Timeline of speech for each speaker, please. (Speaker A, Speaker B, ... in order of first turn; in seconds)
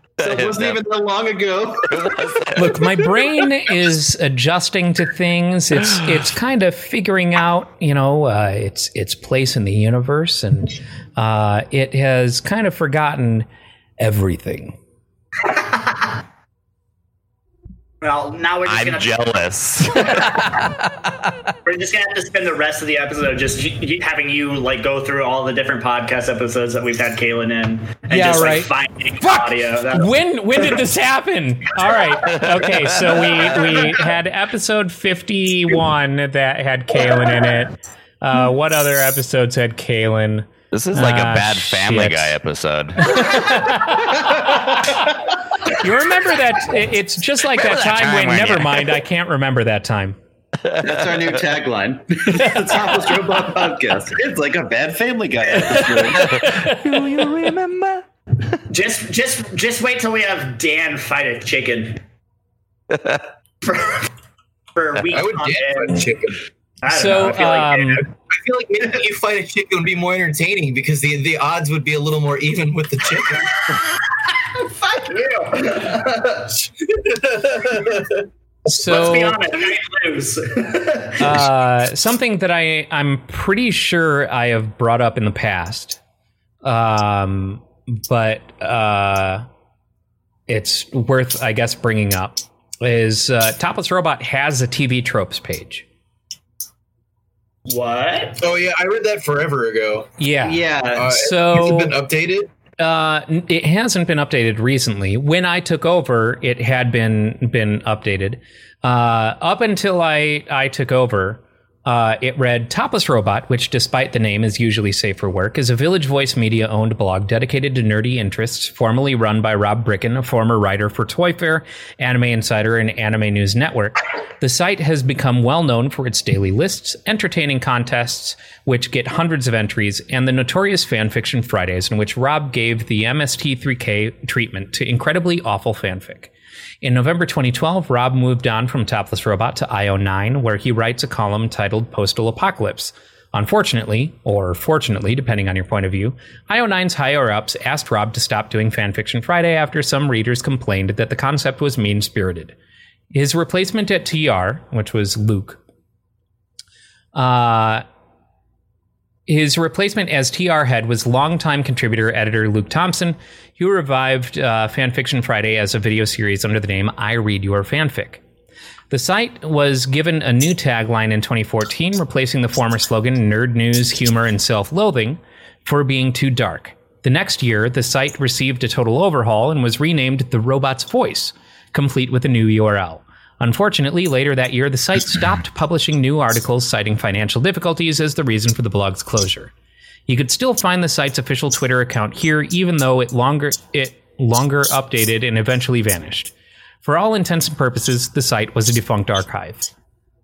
Speaker A: 0.2-0.8, 1.9-2.9, 18.6-20.5, 32.2-32.8, 40.7-43.5, 47.5-48.9, 50.6-51.5, 56.2-58.0, 62.9-63.2
Speaker B: 0.2-2.2, 44.2-45.1, 50.8-56.3, 100.4-101.1
Speaker C: 2.5-13.5, 14.0-14.8, 28.1-28.7, 29.2-42.4, 43.0-44.1, 45.6-50.2, 56.4-57.3, 66.9-68.0, 78.7-79.4, 81.2-86.0, 86.6-89.4, 90.5-95.8, 100.2-102.0, 102.8-136.3, 136.8-152.5, 153.1-155.6, 157.1-157.8, 159.3-168.2, 168.9-189.5, 190.1-196.3, 196.8-199.7
Speaker D: 15.4-16.1, 18.0-19.2, 20.0-20.3, 21.6-30.7, 58.7-62.0, 63.6-64.1, 64.7-66.1, 66.8-68.0, 74.5-76.5, 78.7-81.2, 97.7-98.4
Speaker E: 65.0-66.4, 68.3-73.6, 76.8-78.2, 98.4-100.1, 100.9-102.5